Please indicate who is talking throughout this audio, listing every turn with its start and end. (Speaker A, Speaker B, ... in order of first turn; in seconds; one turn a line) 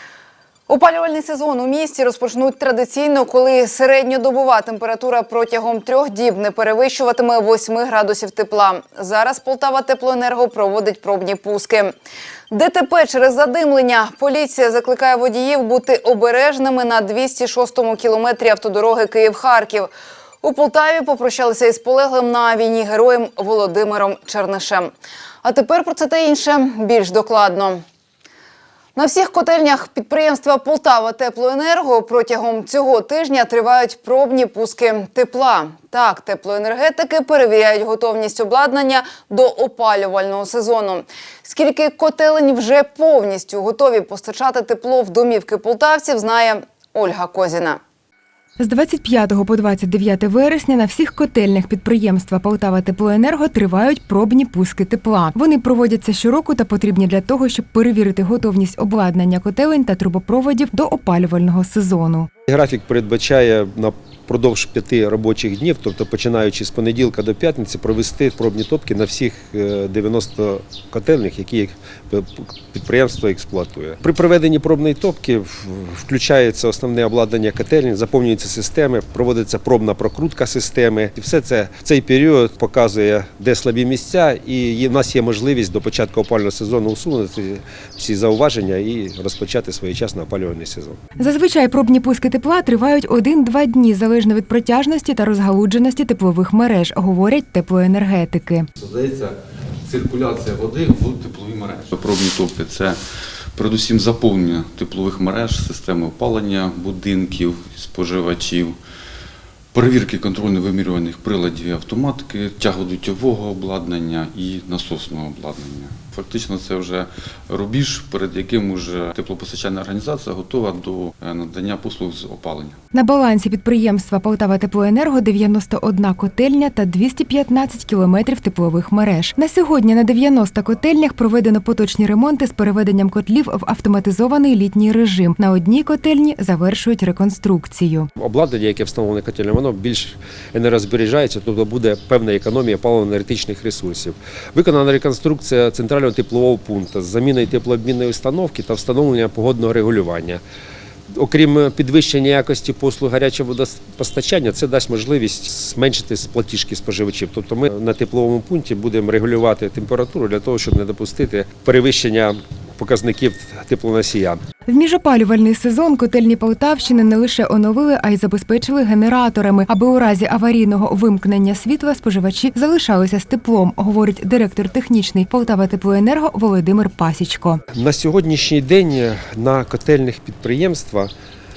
Speaker A: 0.7-11.9
Speaker A: 12.5-19.9
Speaker A: 20.4-24.9
Speaker A: 25.4-27.8
Speaker A: 28.9-47.8
Speaker B: 48.6-62.3
Speaker C: 62.5-91.0
Speaker B: 91.2-98.7
Speaker D: 98.8-99.3
Speaker D: 99.9-103.0
Speaker D: 103.5-108.8
Speaker D: 109.7-122.7
Speaker B: 122.9-138.1
Speaker C: 138.2-150.4
Speaker C: 151.1-164.4
Speaker B: 164.7-177.6
Speaker C: 177.7-181.1